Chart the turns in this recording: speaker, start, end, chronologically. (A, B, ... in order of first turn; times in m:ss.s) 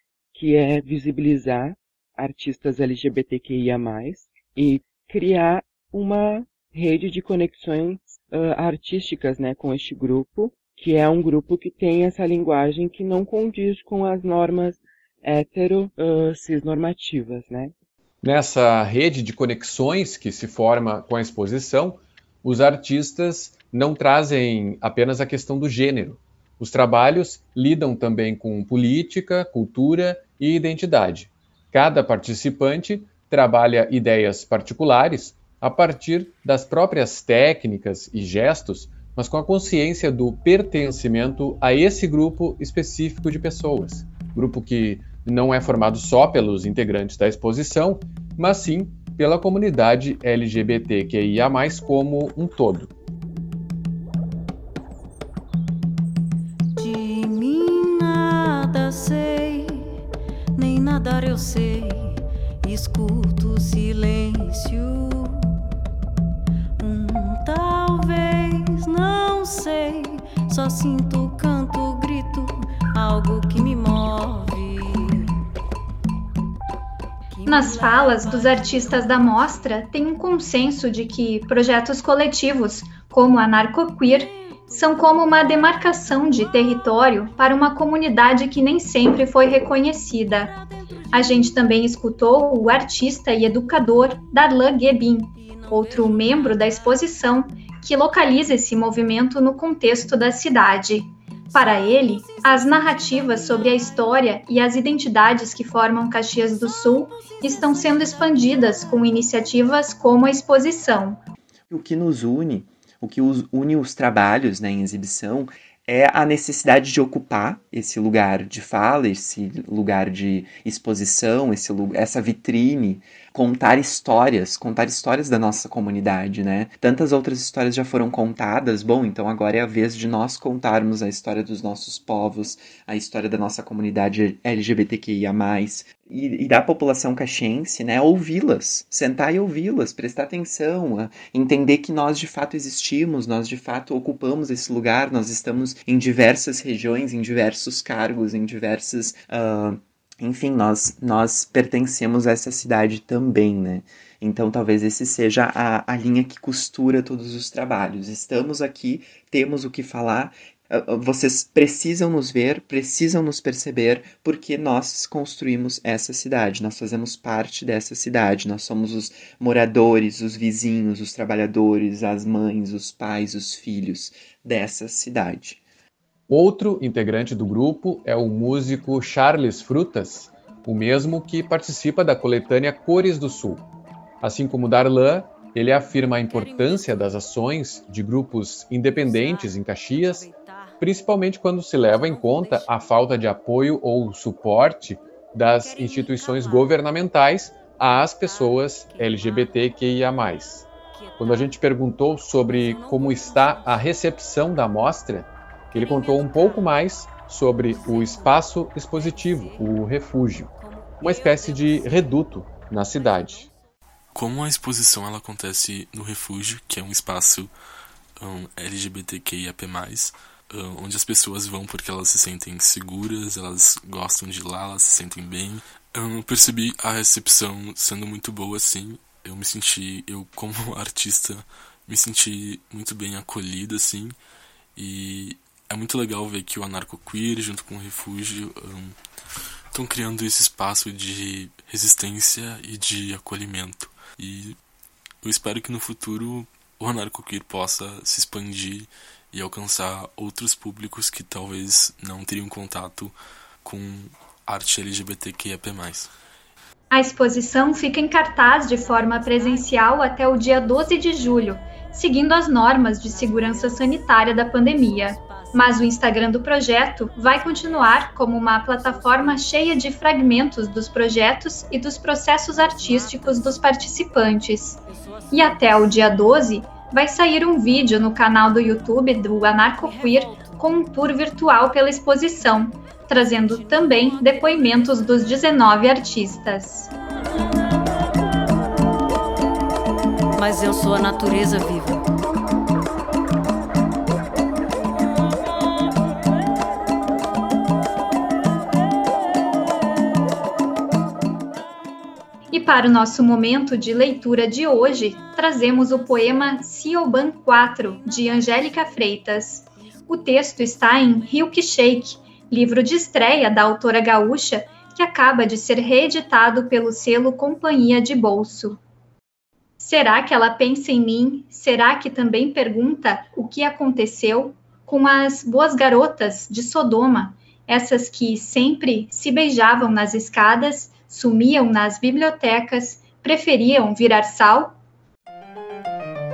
0:00.4-0:17.7 A
0:18.2-0:52.9 B
0:56.8-0:59.9 C
1:00.6-1:05.6 C
1:06.8-1:15.4 C
1:17.3-1:19.5 C
1:17.5-1:30.5 D
1:30.5-1:31.4 C
1:31.1-1:51.2 D
1:35.3-1:37.1 C
1:41.6-1:43.8 C
1:47.0-1:48.4 C
1:51.7-2:55.6 E
2:56.3-3:03.6 B
3:04.2-3:10.3 B
3:06.3-3:07.0 C
3:09.0-3:10.8 C
3:10.8-3:20.7 B
3:12.0-3:12.8 C
3:15.6-3:16.8 C
3:18.0-3:19.6 C
3:20.9-3:21.6 C
3:21.2-3:30.5 B
3:22.4-3:24.0 C
3:25.7-3:26.7 C
3:27.7-3:29.6 C
3:30.6-3:32.2 C
3:31.0-3:33.5 B
3:33.0-3:33.5 C
3:34.1-3:37.5 F
3:38.2-3:54.2 F
3:54.8-3:59.0 F
3:59.7-4:04.6 F
4:05.2-4:16.1 F
4:16.9-4:34.8 D
4:18.8-4:19.7 C
4:23.0-4:25.9 C
4:27.3-4:27.8 C
4:28.8-4:29.4 C
4:32.6-4:33.6 C
4:34.9-4:35.7 C
4:35.3-4:46.9 D
4:39.8-4:40.7 C
4:43.4-4:45.0 C
4:50.4-4:52.0 C
5:02.5-5:18.8 D
5:19.8-5:34.8 D